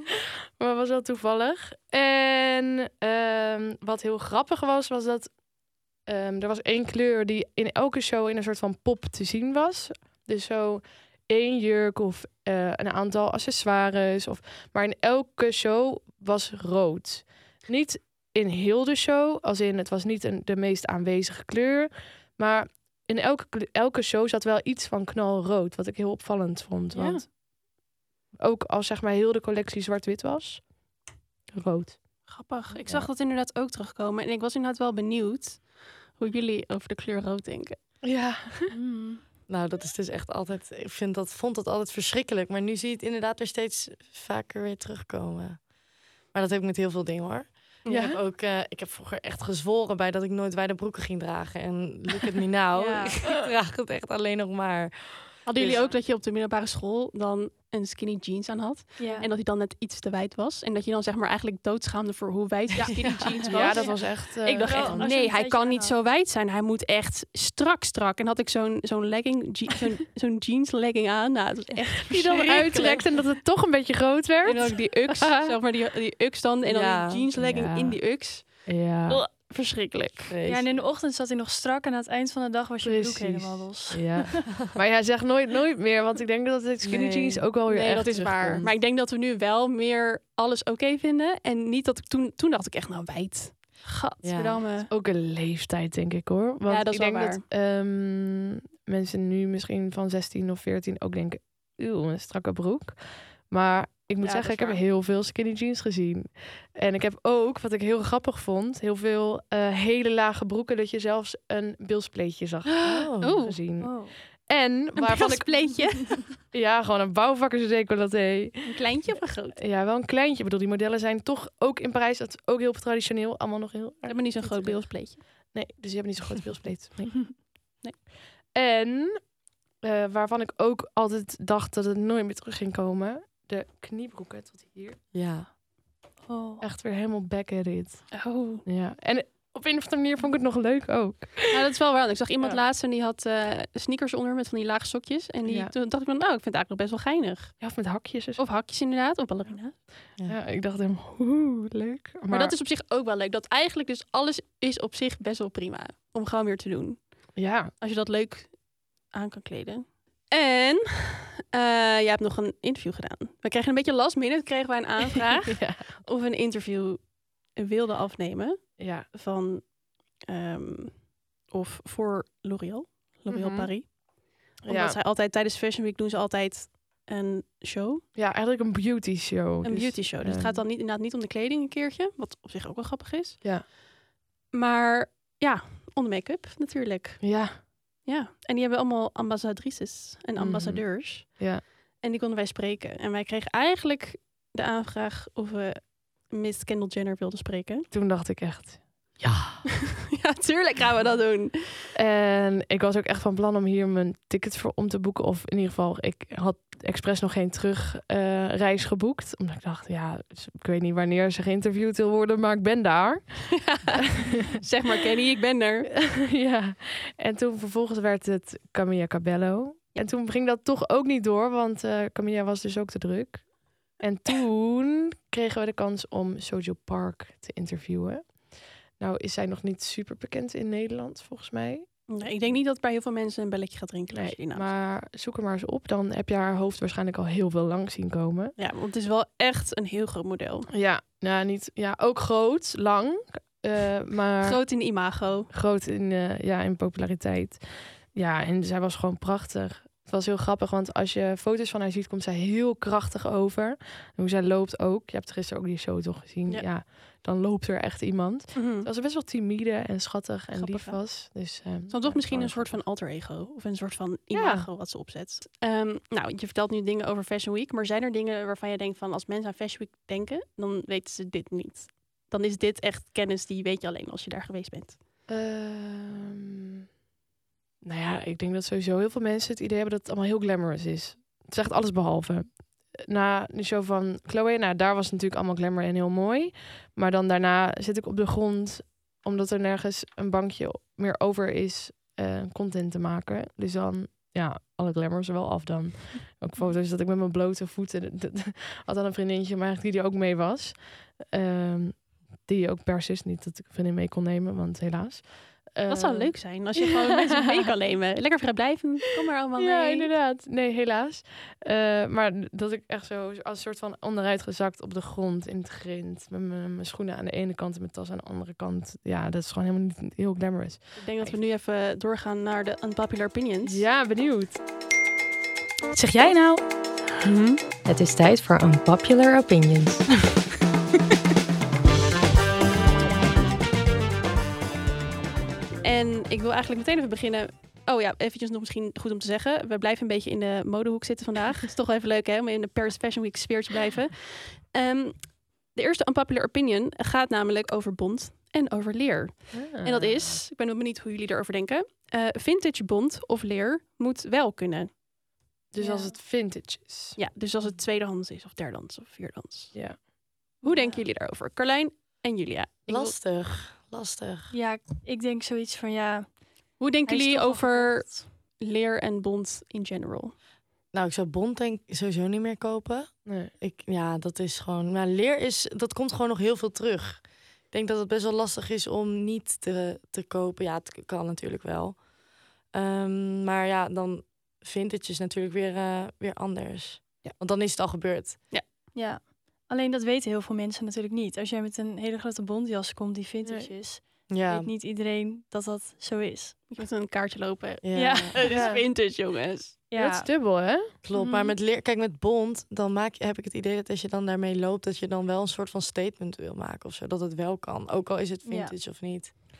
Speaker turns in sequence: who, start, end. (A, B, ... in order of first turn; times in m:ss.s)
0:00.6-0:27.4 A
0:26.9-0:27.3 B
0:28.4-0:33.1 A
0:32.3-0:37.8 B
0:38.0-0:38.7 A
0:38.7-0:39.2 C
0:39.5-0:55.9 D
0:47.8-0:48.1 B
0:47.9-0:48.2 A
0:52.8-0:53.2 C
0:55.5-1:13.1 B
0:59.0-0:59.3 C
1:02.9-1:03.8 D
1:03.5-1:05.0 A
1:03.6-1:06.0 C
1:12.1-1:15.5 A
1:12.7-1:13.1 D
1:14.4-1:20.4 B
1:16.6-1:17.3 D
1:17.4-1:19.2 A
1:20.3-1:20.8 D
1:20.4-1:24.3 C
1:22.8-1:28.7 A
1:26.8-1:27.4 D
1:27.7-1:34.9 B
1:34.2-1:34.7 D
1:34.9-2:07.5 A
1:36.7-1:37.4 B
1:44.2-1:44.8 B
1:52.8-1:53.6 B
1:52.8-1:53.4 D
1:53.8-1:54.2 C
1:55.0-1:56.4 B
1:58.7-1:59.6 B
2:04.0-2:05.2 B
2:08.5-2:15.0 A
2:15.1-2:15.5 D
2:16.2-2:16.6 C
2:16.6-2:21.5 A
2:18.1-2:18.6 B
2:21.5-2:29.8 B
2:25.4-2:25.7 A
2:27.6-2:28.4 A
2:30.2-2:32.6 A
2:32.3-2:58.0 B
2:37.4-2:37.7 A
2:45.6-2:45.9 A
2:48.8-2:49.1 A
2:53.3-2:54.0 A
2:54.6-2:55.0 A
2:58.2-3:00.6 A
2:59.6-3:03.7 B
3:04.5-3:17.9 B
3:07.2-3:07.6 A
3:10.4-3:11.6 A
3:17.9-3:19.6 A
3:20.1-3:21.9 B
3:22.0-3:33.8 A
3:34.5-3:35.9 B
3:36.2-3:52.6 A
3:52.1-3:54.7 B
3:54.1-3:58.6 A
3:58.6-4:00.7 B
4:00.7-4:04.7 A
4:04.4-4:05.5 B
4:05.5-4:22.9 A
4:18.5-4:18.9 B
4:20.5-4:35.0 B
4:24.3-4:24.7 A
4:35.3-4:36.6 A
4:37.8-5:06.8 A
5:05.9-5:10.1 B
5:07.4-5:07.6 A
5:09.6-5:21.4 A
5:21.0-5:23.8 B
5:23.6-5:24.6 A
5:26.0-5:26.6 E
5:27.2-5:30.1 E
5:35.8-5:55.0 B
5:49.5-5:50.4 A
5:55.7-5:57.2 A
5:55.8-5:56.1 C
5:57.2-6:00.0 B
5:59.7-6:00.0 A
6:00.6-6:03.2 B
6:02.9-6:04.5 D
6:04.5-6:08.3 C
6:06.8-6:10.4 B
6:10.9-6:22.1 D
6:13.3-6:13.5 A
6:22.6-6:28.5 D
6:28.9-6:36.6 C
6:33.4-6:33.7 A
6:34.3-6:34.7 D
6:36.7-6:39.8 B
6:37.8-6:38.4 D
6:38.0-6:38.7 C
6:38.5-6:38.9 A
6:39.9-6:40.3 C
6:40.0-6:40.9 A
6:41.0-6:49.3 D
6:41.1-6:41.6 C
6:48.4-6:48.7 C